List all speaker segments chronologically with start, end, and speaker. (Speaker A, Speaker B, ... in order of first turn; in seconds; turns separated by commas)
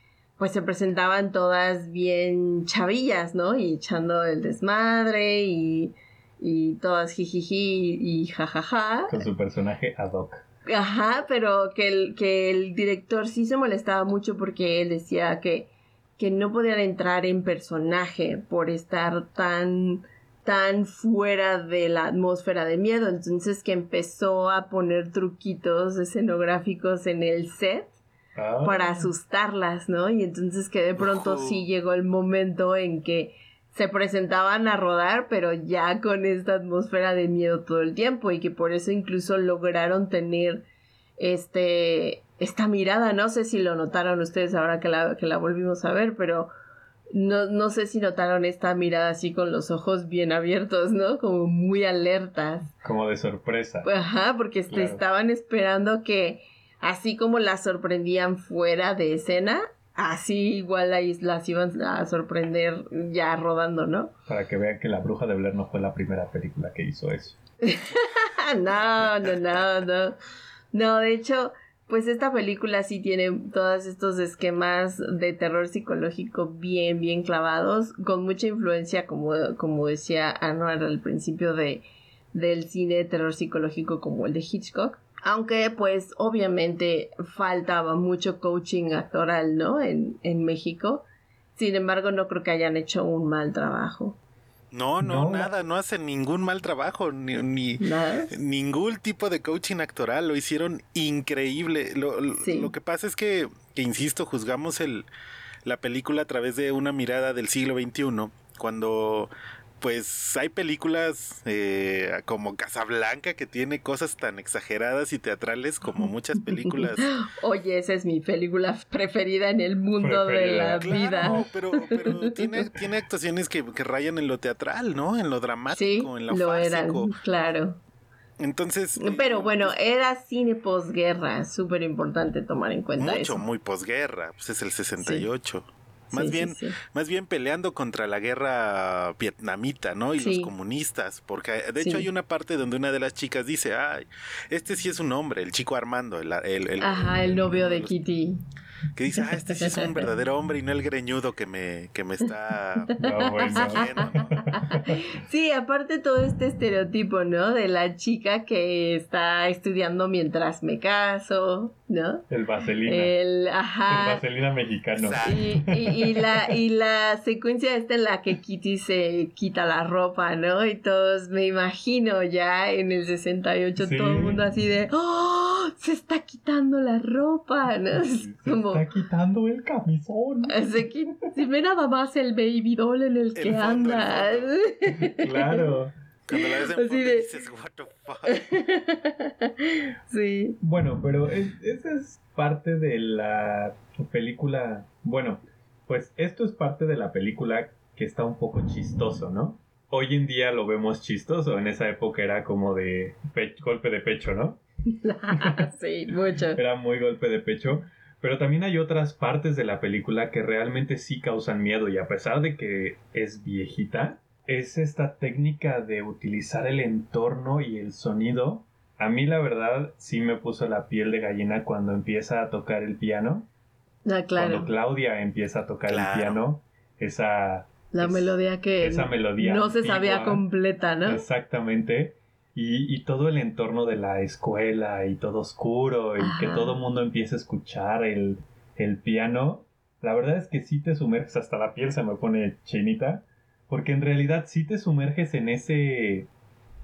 Speaker A: 0.4-9.2, Speaker B: 9.1-10.4, Speaker A: 10.7-27.9, Speaker B: 28.4-29.1, Speaker A: 28.6-40.7, Speaker C: 31.0-31.6, Speaker A: 41.2-46.5, Speaker A: 47.1-52.7, Speaker B: 52.8-53.9, Speaker A: 53.8-64.1, Speaker B: 54.7-55.0, Speaker B: 64.3-67.4, Speaker A: 67.6-70.2, Speaker A: 70.7-91.0, Speaker A: 91.6-94.2, Speaker C: 94.7-105.1, Speaker B: 95.0-95.5, Speaker A: 97.8-98.3, Speaker A: 102.4-102.7, Speaker C: 105.7-117.1, Speaker A: 116.6-122.5, Speaker B: 120.0-121.5, Speaker C: 120.8-127.2, Speaker A: 125.7-127.8, Speaker C: 128.4-129.8, Speaker A: 129.0-133.5, Speaker C: 133.0-148.0, Speaker A: 135.0-135.3, Speaker A: 136.1-136.8, Speaker A: 140.2-140.5, Speaker A: 141.8-142.1, Speaker A: 146.8-148.4, Speaker C: 148.9-154.3, Speaker A: 149.2-150.1, Speaker A: 153.0-162.3, Speaker B: 153.0-154.9, Speaker B: 162.3-163.2, Speaker A: 162.8-164.2, Speaker B: 163.9-166.5, Speaker C: 165.0-165.6, Speaker A: 165.2-178.8, Speaker B: 173.8-174.4, Speaker B: 177.9-180.8, Speaker A: 180.5-185.7, Speaker C: 183.4-184.6, Speaker B: 185.0-185.9, Speaker C: 186.3-188.5, Speaker A: 186.3-187.3, Speaker A: 188.3-190.6, Speaker B: 190.6-204.6, Speaker A: 204.9-206.6, Speaker B: 205.3-205.6, Speaker B: 206.5-223.5, Speaker A: 224.1-224.7, Speaker B: 224.4-230.4, Speaker C: 225.9-226.4, Speaker A: 227.9-231.2, Speaker B: 231.1-246.3, Speaker A: 236.2-236.8